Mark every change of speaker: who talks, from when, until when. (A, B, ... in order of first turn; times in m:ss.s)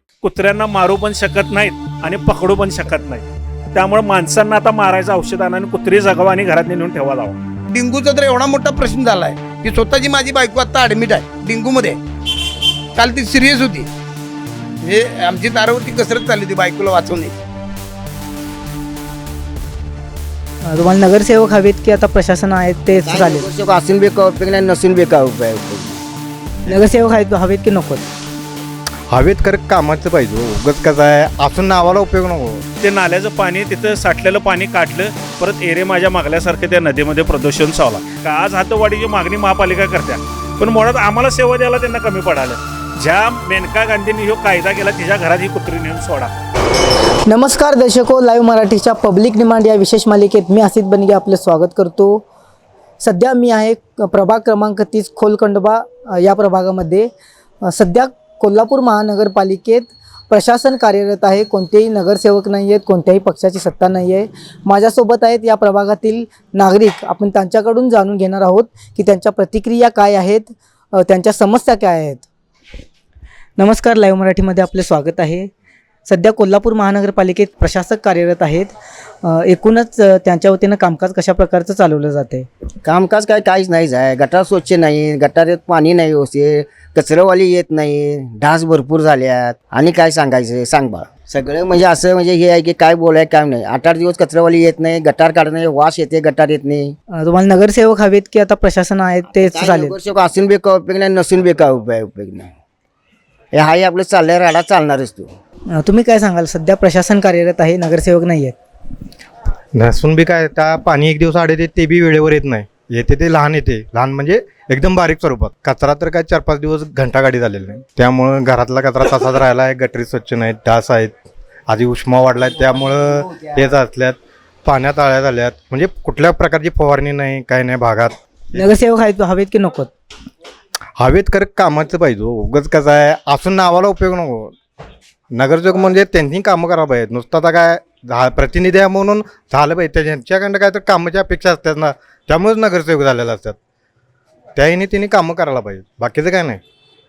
0:00.2-0:07.4 A
0:07.7-0:12.0 B
0:13.0-0:13.9 B
0:14.8-0:17.4 B
0:20.7-0:23.5 C
0:23.0-0:26.0 D
0:26.7-0:28.1 C
0:29.1-0:32.6 E
0:32.8-0:46.3 A
0:47.3-0:52.2 C
0:53.0-0:57.1 C
0:57.6-1:12.3 C
1:13.6-1:15.5 C
1:16.1-1:18.7 C
1:19.2-1:22.5 C
1:22.8-1:37.0 D
1:37.2-1:40.0 C
1:39.4-1:42.5 D
1:43.6-1:45.4 D
1:45.8-1:48.6 C
1:49.8-2:08.6 E
2:08.6-2:09.9 C
2:11.0-2:14.5 E
2:15.3-2:23.6 E
2:24.6-2:26.6 E